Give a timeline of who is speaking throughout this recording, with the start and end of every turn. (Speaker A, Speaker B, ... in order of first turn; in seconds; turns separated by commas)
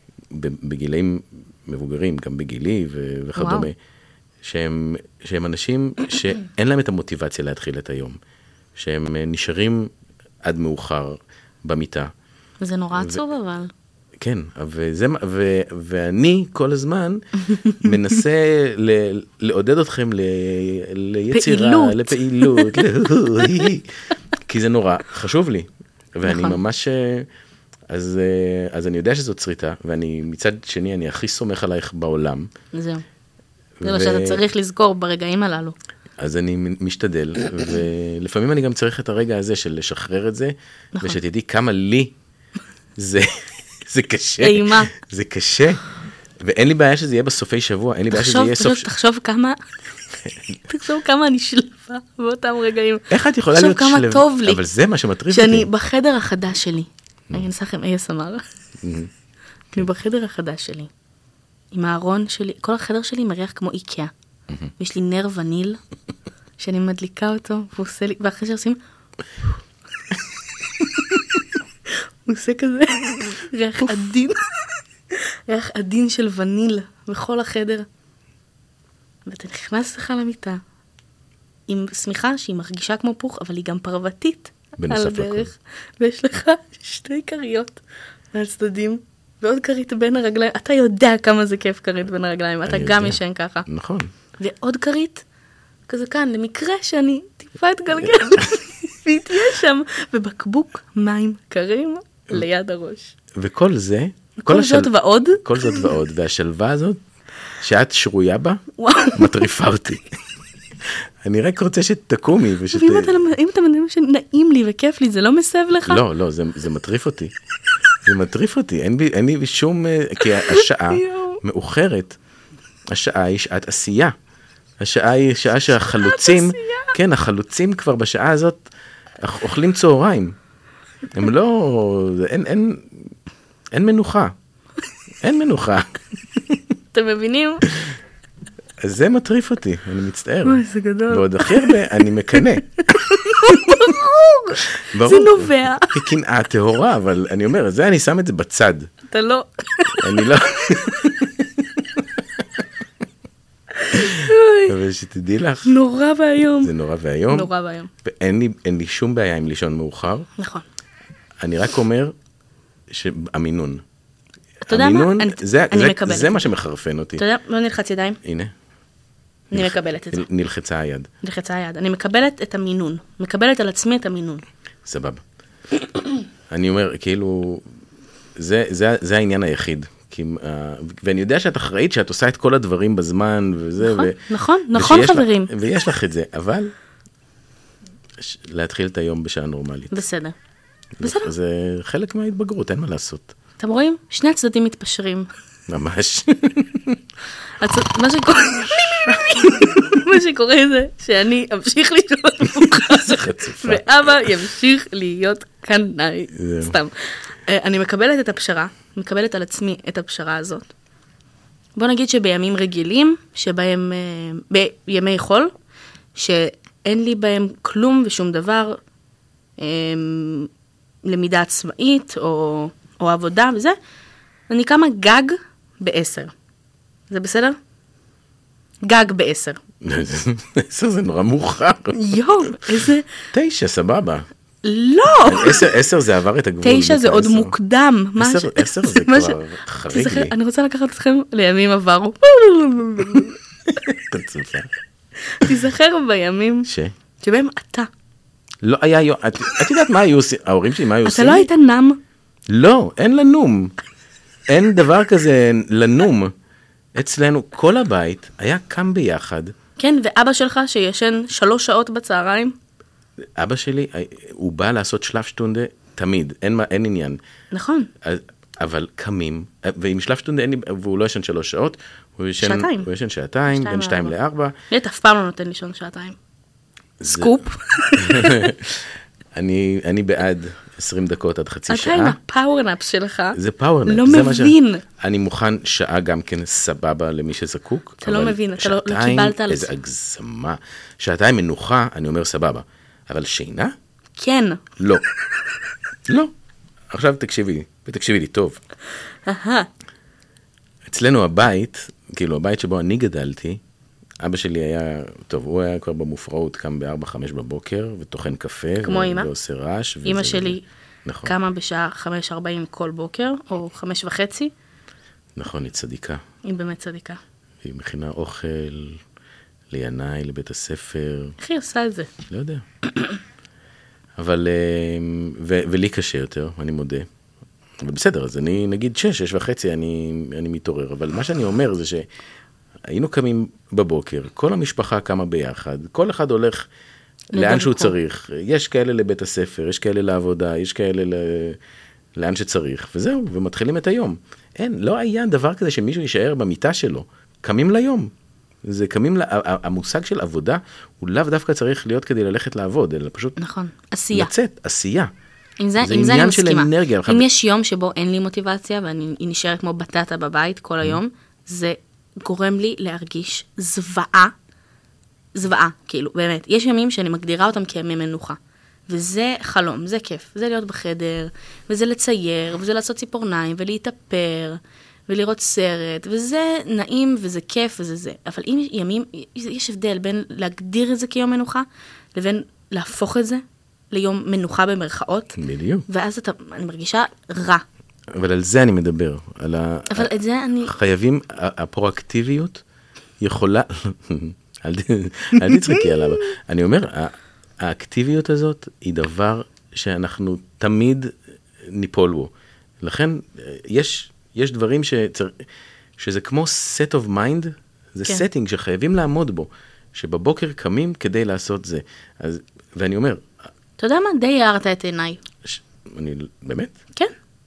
Speaker A: 0.3-3.7, Speaker B: 3.4-3.7, Speaker A: 4.4-8.2, Speaker A: 8.8-9.9, Speaker A: 10.4-12.1, Speaker B: 12.6-13.7, Speaker A: 12.9-13.2, Speaker A: 14.2-23.9, Speaker B: 17.6-18.0, Speaker B: 21.3-22.8, Speaker B: 23.4-23.7, Speaker A: 24.4-27.3, Speaker B: 26.2-26.6, Speaker A: 27.9-32.5, Speaker B: 32.7-33.0, Speaker A: 33.8-34.4, Speaker B: 33.8-35.8, Speaker A: 36.2-42.1, Speaker A: 43.0-45.8, Speaker B: 44.4-44.9, Speaker A: 46.4-48.9, Speaker B: 48.1-49.6, Speaker B: 50.7-54.6, Speaker A: 53.1-55.7, Speaker B: 55.3-58.4, Speaker A: 58.8-59.1, Speaker B: 59.7-60.9, Speaker B: 61.7-64.1, Speaker B: 64.8-65.8, Speaker B: 66.6-68.8, Speaker B: 70.8-77.9, Speaker B: 79.2-80.6, Speaker B: 81.7-87.8, Speaker A: 84.8-85.5, Speaker B: 88.3-93.7, Speaker A: 92.7-94.1, Speaker B: 94.4-95.2, Speaker B: 95.9-103.1, Speaker A: 103.3-107.0, Speaker B: 104.4-105.9, Speaker A: 107.6-110.0, Speaker B: 108.8-109.5, Speaker A: 111.2-113.2, Speaker B: 112.7-116.0, Speaker A: 115.8-117.3, Speaker A: 118.0-122.2, Speaker B: 120.2-121.4, Speaker A: 122.9-124.1, Speaker A: 124.8-128.7, Speaker B: 125.8-127.0, Speaker A: 129.2-130.3, Speaker A: 131.1-132.9, Speaker A: 133.7-134.3, Speaker A: 135.2-136.6, Speaker B: 136.9-137.6, Speaker A: 137.7-137.9, Speaker A: 138.8-143.9, Speaker B: 140.4-146.1, Speaker A: 144.7-148.9, Speaker B: 149.1-151.1, Speaker A: 150.0-151.8, Speaker B: 153.8-154.7, Speaker A: 153.9-155.7, Speaker B: 155.6-156.7, Speaker A: 156.6-157.5, Speaker B: 157.3-157.9, Speaker A: 158.0-160.3, Speaker B: 160.3-160.7, Speaker A: 161.4-162.1, Speaker A: 162.9-163.8, Speaker B: 164.6-166.4, Speaker A: 164.7-167.2, Speaker B: 167.2-168.2, Speaker A: 168.2-168.5, Speaker B: 169.5-170.2, Speaker A: 169.5-171.1, Speaker B: 171.2-174.4, Speaker A: 174.8-175.2, Speaker A: 176.5-177.6, Speaker A: 178.4-186.7, Speaker B: 183.8-185.5, Speaker A: 188.2-190.0, Speaker B: 189.9-190.3, Speaker A: 191.0-193.3, Speaker B: 191.0-191.3, Speaker B: 193.6-195.3, Speaker A: 195.7-197.0, Speaker B: 197.6-210.7, Speaker A: 199.0-199.6, Speaker A: 202.4-204.2, Speaker A: 206.3-206.8, Speaker B: 211.8-215.5, Speaker B: 216.1-218.8, Speaker B: 219.6-220.5, Speaker B: 221.0-223.8, Speaker B: 224.5-226.3, Speaker B: 227.1-227.6, Speaker B: 228.8-229.6, Speaker A: 229.8-232.6, Speaker B: 231.9-233.1, Speaker A: 233.3-234.2, Speaker B: 234.6-235.7, Speaker A: 235.2-237.5, Speaker B: 236.6-243.4, Speaker A: 238.2-240.3, Speaker A: 243.7-244.7, Speaker B: 245.2-246.7, Speaker A: 246.7-246.9, Speaker B: 247.2-247.9, Speaker A: 248.6-251.5, Speaker B: 251.0-252.0, Speaker A: 252.5-253.7, Speaker A: 254.5-256.3, Speaker A: 256.9-259.5, Speaker B: 259.8-262.6, Speaker A: 263.4-267.2, Speaker B: 267.5-267.9, Speaker A: 268.0-274.6, Speaker B: 272.4-272.9, Speaker B: 273.5-274.1, Speaker B: 274.7-276.1, Speaker A: 277.0-277.4, Speaker B: 277.1-278.5, Speaker A: 277.9-282.2, Speaker B: 281.7-284.8, Speaker A: 283.3-293.7, Speaker B: 288.0-289.7, Speaker B: 294.2-294.6, Speaker A: 294.8-295.0, Speaker A: 296.1-296.3, Speaker A: 296.9-298.6, Speaker B: 299.2-299.7, Speaker A: 300.9-303.6, Speaker A: 304.2-311.3, Speaker B: 308.8-309.3, Speaker B: 310.0-310.6, Speaker B: 311.2-314.5, Speaker A: 315.4-316.2, Speaker B: 316.4-317.2, Speaker A: 317.6-319.0, Speaker A: 319.7-321.4, Speaker B: 321.4-322.1, Speaker A: 322.2-322.6, Speaker A: 324.2-327.1, Speaker A: 327.8-332.1, Speaker A: 332.9-336.7, Speaker B: 337.3-337.9, Speaker A: 337.3-341.6, Speaker A: 342.1-348.1, Speaker A: 348.6-353.4, Speaker B: 353.4-354.3, Speaker A: 354.1-355.1, Speaker B: 355.6-364.3, Speaker A: 355.8-357.2, Speaker B: 365.3-385.4, Speaker A: 385.4-385.9, Speaker B: 385.9-387.6, Speaker A: 388.1-392.6, Speaker B: 389.9-390.7, Speaker A: 393.2-402.3, Speaker B: 395.7-396.0, Speaker A: 402.8-405.4, Speaker A: 406.0-413.3, Speaker B: 413.8-415.2, Speaker A: 415.4-416.8